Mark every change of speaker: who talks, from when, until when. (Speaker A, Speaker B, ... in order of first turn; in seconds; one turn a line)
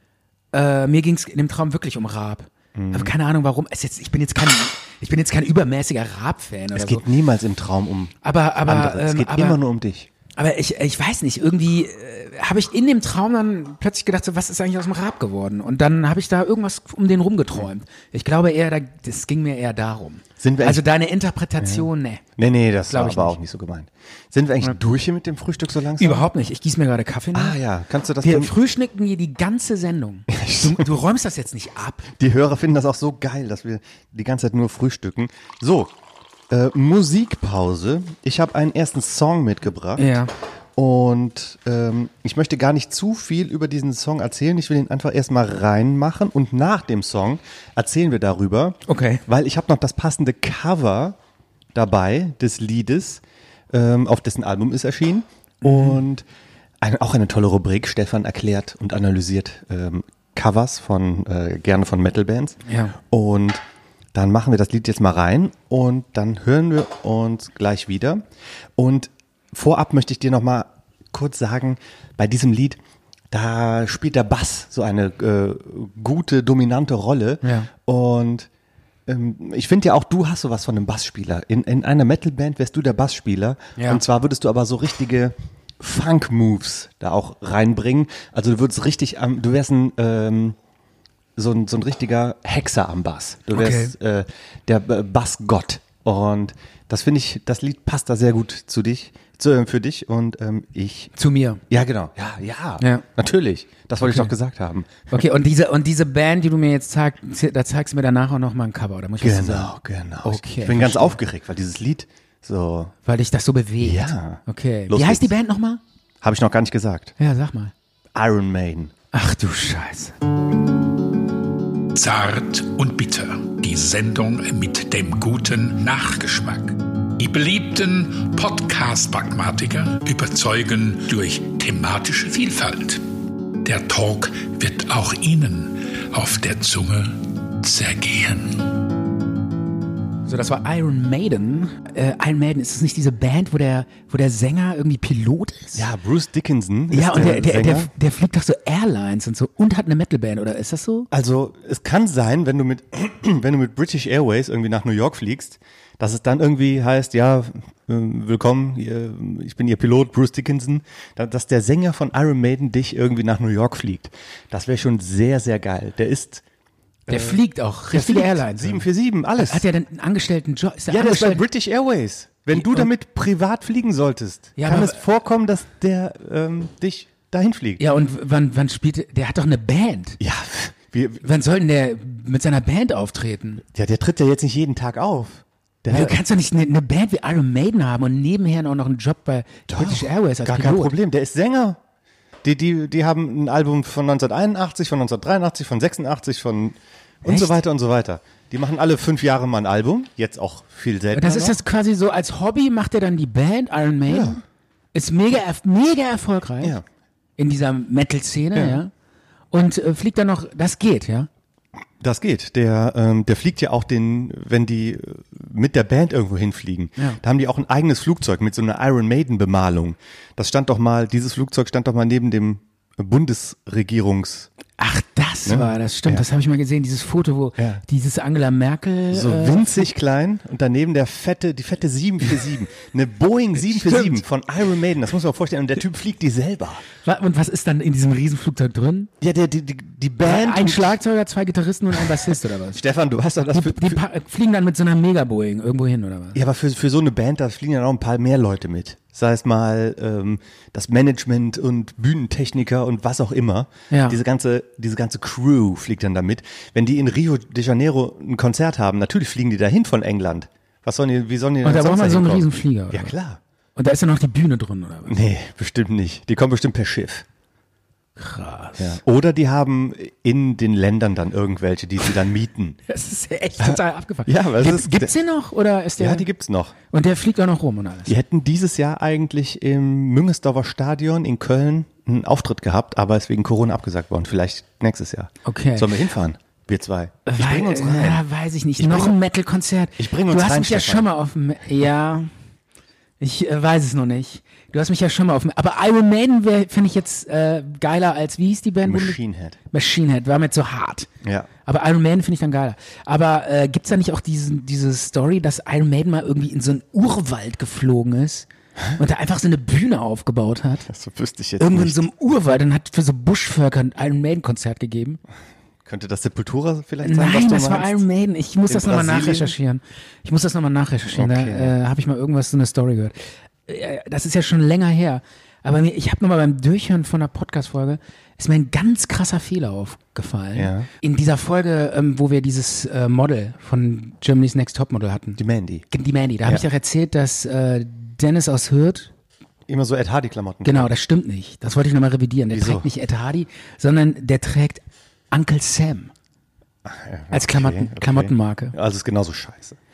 Speaker A: 0.5-7.0
Speaker B: 2.8-3.1
Speaker B: 6.7-10.1
Speaker A: 8.2-9.6
Speaker A: 10.4-22.2
Speaker B: 20.4-20.9
Speaker B: 21.6-21.9
Speaker B: 22.4-26.3
Speaker A: 22.9-23.4
Speaker A: 26.0-27.6
Speaker B: 27.3-28.5
Speaker A: 28.2-32.1
Speaker B: 30.3-30.9
Speaker B: 32.2-35.9
Speaker B: 36.5-40.2
Speaker A: 40.0-40.3
Speaker B: 40.8-51.2
Speaker A: 48.9-49.2
Speaker B: 51.7-56.2
Speaker A: 55.6-56.0
Speaker B: 56.8-63.6
Speaker A: 62.7-63.0
Speaker B: 64.1-68.2
Speaker B: 68.8-72.8
Speaker B: 73.3-78.5
Speaker A: 77.4-77.7
Speaker B: 79.1-90.6
Speaker A: 83.8-84.0
Speaker B: 91.4-101.1
Speaker A: 93.5-93.9
Speaker A: 101.2-101.6
Speaker B: 101.7-105.2
Speaker A: 104.0-104.3
Speaker A: 105.1-111.2
Speaker B: 109.2-112.9
Speaker A: 113.0-115.8
Speaker B: 113.8-115.3
Speaker B: 116.2-117.1
Speaker A: 117.2-117.7
Speaker B: 118.1-118.9
Speaker A: 119.1-120.2
Speaker C: 121.9-133.0
Speaker C: 133.6-138.7
Speaker A: 140.2-145.9
Speaker B: 145.8-147.9
Speaker A: 146.9-151.1
Speaker B: 151.1-166.4
Speaker A: 167.1-168.9
Speaker B: 167.1-169.7
Speaker A: 169.4-171.4
Speaker B: 170.9-177.8
Speaker A: 172.5-172.9
Speaker A: 174.6-175.0
Speaker A: 177.8-180.2
Speaker B: 180.2-181.3
Speaker A: 181.2-183.6
Speaker B: 183.7-186.2
Speaker A: 185.9-190.9
Speaker B: 189.7-191.8
Speaker B: 192.4-201.6
Speaker A: 197.2-197.5
Speaker A: 201.1-204.4
Speaker B: 204.1-204.4
Speaker A: 204.9-206.8
Speaker A: 207.4-208.9
Speaker B: 208.6-208.8
Speaker A: 209.5-211.3
Speaker B: 212.0-224.5
Speaker A: 224.8-229.9
Speaker B: 225.5-226.2
Speaker B: 227.6-227.8
Speaker B: 229.1-236.8
Speaker A: 233.7-234.2
Speaker A: 237.0-239.1
Speaker B: 239.2-241.0
Speaker A: 240.2-242.8
Speaker B: 242.2-244.0
Speaker A: 243.5-246.4
Speaker B: 246.3-263.4
Speaker A: 253.9-254.2
Speaker A: 261.6-263.1
Speaker A: 263.8-265.2
Speaker B: 265.1-267.2
Speaker A: 268.2-269.0
Speaker B: 268.8-272.8
Speaker A: 272.9-276.3
Speaker B: 273.6-275.1
Speaker B: 276.0-276.8
Speaker A: 276.9-278.1
Speaker B: 278.1-288.2
Speaker A: 285.4-285.9
Speaker A: 287.3-292.3
Speaker B: 288.8-289.2
Speaker B: 290.0-291.1
Speaker A: 293.2-299.2
Speaker B: 298.8-299.6
Speaker A: 299.7-301.1
Speaker B: 301.2-301.5
Speaker A: 301.7-310.9
Speaker B: 310.9-312.1
Speaker A: 311.6-315.2
Speaker B: 315.9-318.0
Speaker A: 317.0-323.1
Speaker B: 318.7-319.6
Speaker B: 321.1-321.8
Speaker A: 323.7-335.4
Speaker B: 330.6-330.9
Speaker B: 335.4-335.9
Speaker A: 335.9-339.1
Speaker B: 339.7-340.9
Speaker A: 340.6-346.1
Speaker B: 342.5-342.9
Speaker B: 346.9-349.8
Speaker A: 347.3-348.8